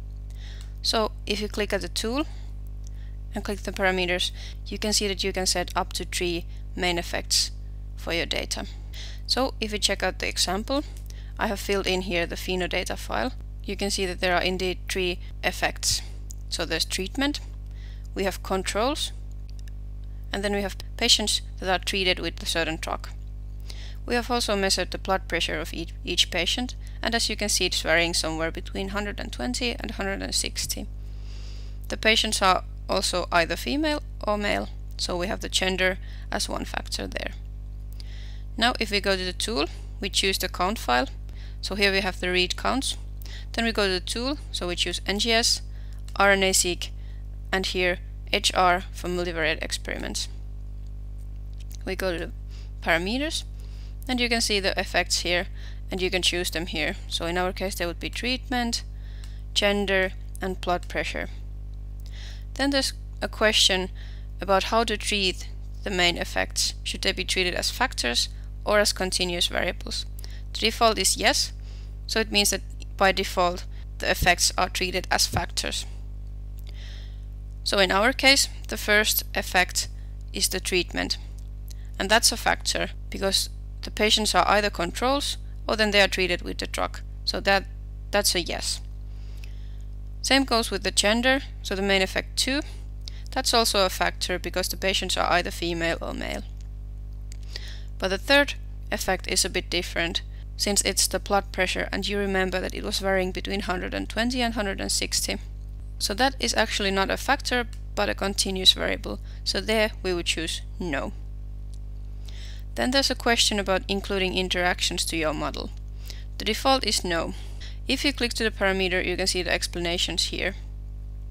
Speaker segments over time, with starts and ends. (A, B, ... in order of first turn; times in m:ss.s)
0:00.8-0:02.3 A
0:03.3-0:08.7 A
0:09.3-0:10.8 A
0:11.4-0:17.4 A
0:18.1-0:19.1 A
0:20.3-0:23.1 A
0:24.0-0:30.9 A
0:31.9-0:37.4 A
0:38.6-0:46.9 A
0:47.5-0:50.3 A
0:51.8-0:53.5 A
0:54.0-0:58.8 A
0:59.5-1:01.3 A
1:02.5-1:15.9 A
1:17.6-1:21.2 A
1:22.0-1:28.8 A
1:30.2-1:32.6 A
1:33.3-1:36.4 A
1:38.0-1:45.4 A
1:46.0-1:51.1 A
1:52.7-1:55.7 A
1:56.4-2:00.6 A